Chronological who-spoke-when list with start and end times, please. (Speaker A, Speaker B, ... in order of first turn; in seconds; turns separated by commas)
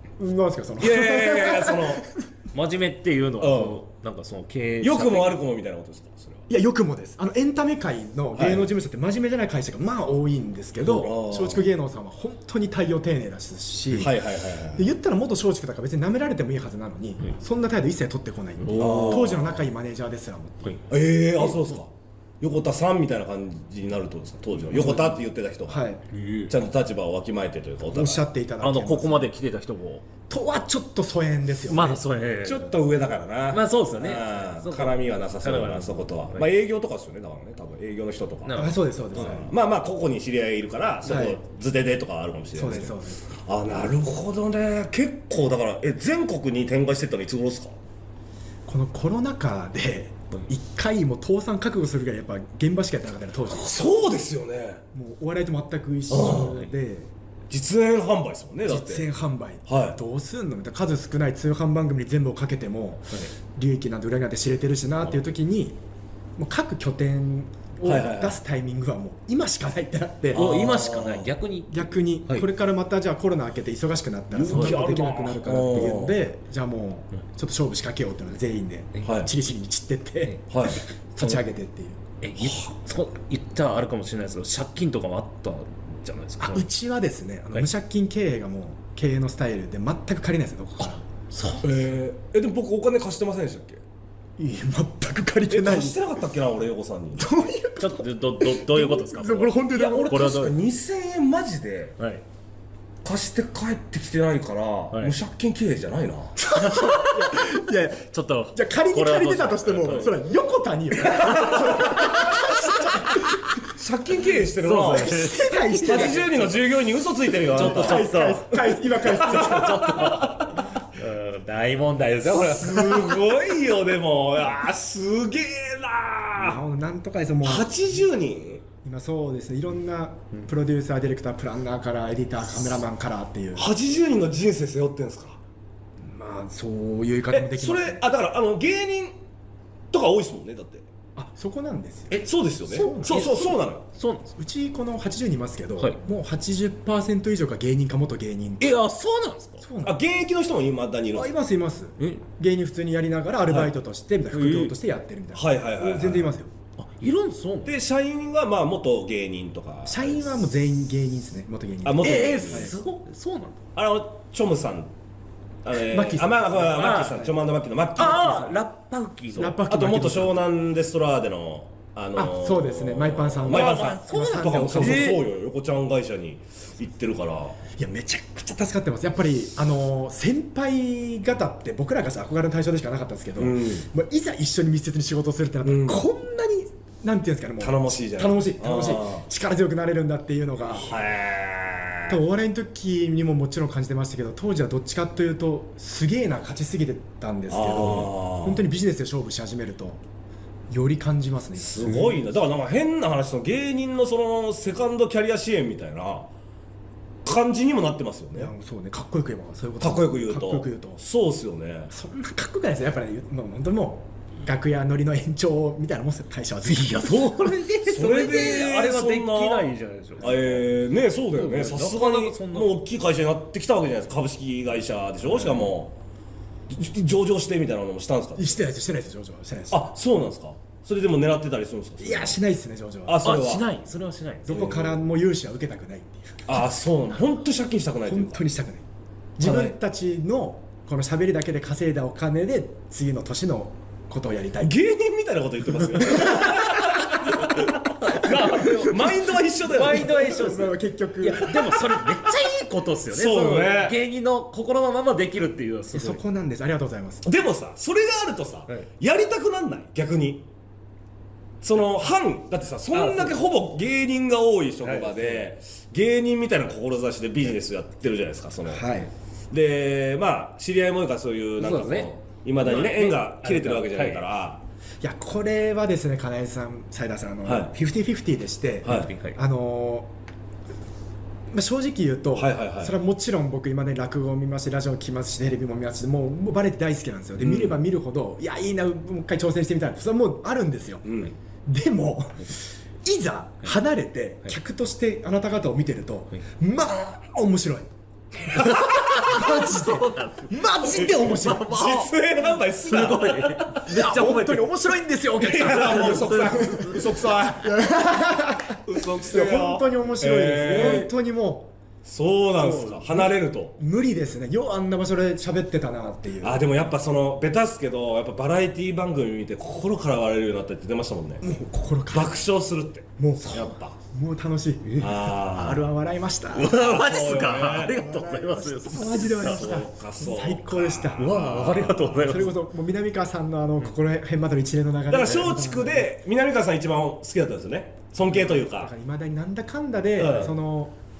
Speaker A: 0.2-2.1, Speaker B: 0.8-2.1, Speaker C: 2.5-5.4, Speaker B: 3.4-3.8, Speaker B: 4.8-6.4, Speaker A: 6.5-14.2, Speaker B: 8.3-8.7, Speaker B: 10.8-11.7, Speaker B: 13.9-14.8, Speaker A: 14.7-20.8, Speaker C: 18.6-19.4, Speaker B: 18.7-19.6, Speaker B: 20.9-25.8, Speaker A: 21.4-21.7, Speaker A: 24.7-26.0, Speaker C: 26.1-26.5, Speaker B: 26.5-28.2, Speaker A: 27.9-29.3, Speaker C: 28.6-30.0, Speaker A: 30.3-32.0, Speaker C: 31.6-32.7, Speaker B: 32.4-47.7, Speaker C: 33.5-36.5, Speaker C: 38.4-38.8, Speaker A: 38.5-39.5, Speaker A: 41.0-41.4, Speaker A: 42.5-43.2, Speaker A: 48.6-53.9, Speaker B: 53.5-54.8, Speaker A: 54.9-57.1, Speaker B: 56.1-56.6, Speaker B: 57.5-59.1, Speaker A: 58.7-65.8, Speaker B: 59.7-60.0, Speaker A: 66.4-70.5, Speaker B: 67.8-68.4, Speaker B: 70.3-71.3, Speaker C: 70.3-72.5, Speaker A: 71.7-82.0, Speaker B: 74.3-76.2, Speaker C: 74.4-75.0, Speaker B: 79.0-79.3, Speaker B: 80.5-80.8, Speaker C: 82.2-86.7, Speaker A: 86.4-91.0, Speaker C: 91.3-91.7, Speaker B: 91.6-93.8, Speaker A: 94.4-96.0, Speaker B: 95.5-97.3, Speaker A: 97.2-100.4, Speaker C: 97.8-100.5, Speaker B: 99.7-101.9, Speaker C: 102.0-102.2, Speaker B: 103.0-106.4, Speaker A: 106.4-113.4, Speaker C: 106.5-107.5, Speaker C: 108.1-110.2, Speaker C: 111.2-113.5, Speaker B: 111.2-112.1, Speaker B: 113.7-115.2, Speaker C: 114.6-116.3, Speaker A: 114.9-116.5, Speaker B: 115.8-120.7, Speaker A: 117.5-120.0, Speaker C: 117.5-123.1, Speaker B: 122.2-126.6, Speaker A: 126.3-127.7, Speaker B: 127.4-128.6, Speaker A: 128.8-133.7, Speaker B: 133.6-135.4, Speaker A: 136.0-138.0, Speaker B: 137.3-139.1, Speaker B: 139.9-140.8, Speaker A: 141.2-143.6, Speaker C: 142.1-143.3, Speaker B: 142.1-143.8, Speaker C: 143.9-144.3, Speaker A: 144.4-148.7, Speaker C: 148.6-149.6, Speaker A: 149.6-150.0, Speaker B: 149.8-151.3, Speaker A: 151.1-156.5, Speaker C: 154.3-154.7, Speaker B: 155.3-156.3, Speaker C: 156.8-157.7, Speaker B: 157.7-160.4, Speaker A: 159.8-162.7, Speaker B: 161.8-162.7, Speaker C: 162.0-163.6, Speaker B: 163.7-164.9, Speaker B: 165.6-168.6, Speaker A: 165.8-167.0, Speaker C: 166.7-167.3, Speaker C: 167.9-169.6, Speaker A: 169.3-170.4, Speaker B: 169.7-177.6, Speaker A: 172.2-175.2, Speaker C: 173.5-175.2, Speaker A: 177.8-190.9, Speaker B: 183.4-183.8, Speaker B: 185.6-186.1, Speaker B: 187.6-189.2, Speaker B: 190.8-192.2, Speaker A: 192.1-200.0, Speaker B: 197.5-198.6, Speaker A: 200.7-202.3, Speaker B: 201.6-206.3, Speaker B: 207.2-208.5, Speaker A: 208.3-211.0, Speaker B: 209.8-211.9, Speaker A: 211.9-217.3, Speaker C: 216.6-220.7, Speaker B: 217.9-225.9, Speaker C: 221.3-222.7, Speaker B: 226.7-228.6, Speaker A: 228.4-229.9, Speaker B: 229.7-232.4, Speaker A: 232.0-233.3, Speaker B: 233.1-233.7, Speaker C: 233.2-234.5, Speaker A: 234.5-236.7, Speaker B: 234.5-235.0, Speaker B: 236.5-238.4, Speaker A: 238.1-238.8, Speaker A: 239.4-244.8, Speaker B: 239.4-239.7, Speaker B: 244.6-250.3, Speaker A: 246.2-246.4, Speaker C: 247.3-256.2, Speaker A: 248.5-248.7, Speaker A: 249.8-251.8, Speaker B: 253.1-253.9, Speaker A: 255.9-257.3, Speaker B: 257.2-260.5, Speaker B: 261.6-268.9, Speaker C: 262.9-263.3, Speaker C: 264.8-265.4, Speaker A: 268.7-269.1, Speaker B: 269.5-274.6, Speaker C: 271.6-274.2, Speaker A: 275.0-280.1, Speaker B: 277.4-277.7, Speaker B: 278.8-279.1, Speaker C: 278.9-279.4, Speaker A: 281.5-291.1, Speaker B: 282.4-282.9, Speaker B: 287.4-287.8, Speaker B: 291.0-291.3, Speaker A: 291.6-302.1, Speaker C: 298.5-302.1, Speaker B: 298.6-299.3, Speaker B: 300.9-303.8, Speaker C: 302.8-304.7, Speaker A: 303.9-311.7, Speaker B: 305.4-307.8, Speaker C: 305.6-307.1, Speaker B: 308.9-311.1, Speaker C: 310.7-311.1, Speaker B: 312.0-313.8, Speaker C: 312.6-313.0, Speaker A: 313.1-316.6, Speaker B: 316.4-321.4, Speaker A: 321.4-322.4, Speaker B: 322.1-324.0, Speaker A: 323.2-331.3, Speaker B: 325.0-325.8, Speaker C: 326.5-329.7, Speaker B: 326.7-327.9, Speaker B: 329.0-332.4, Speaker C: 331.2-332.5, Speaker A: 332.2-336.1, Speaker B: 335.1-338.9, Speaker A: 338.2-340.9, Speaker B: 340.2-340.5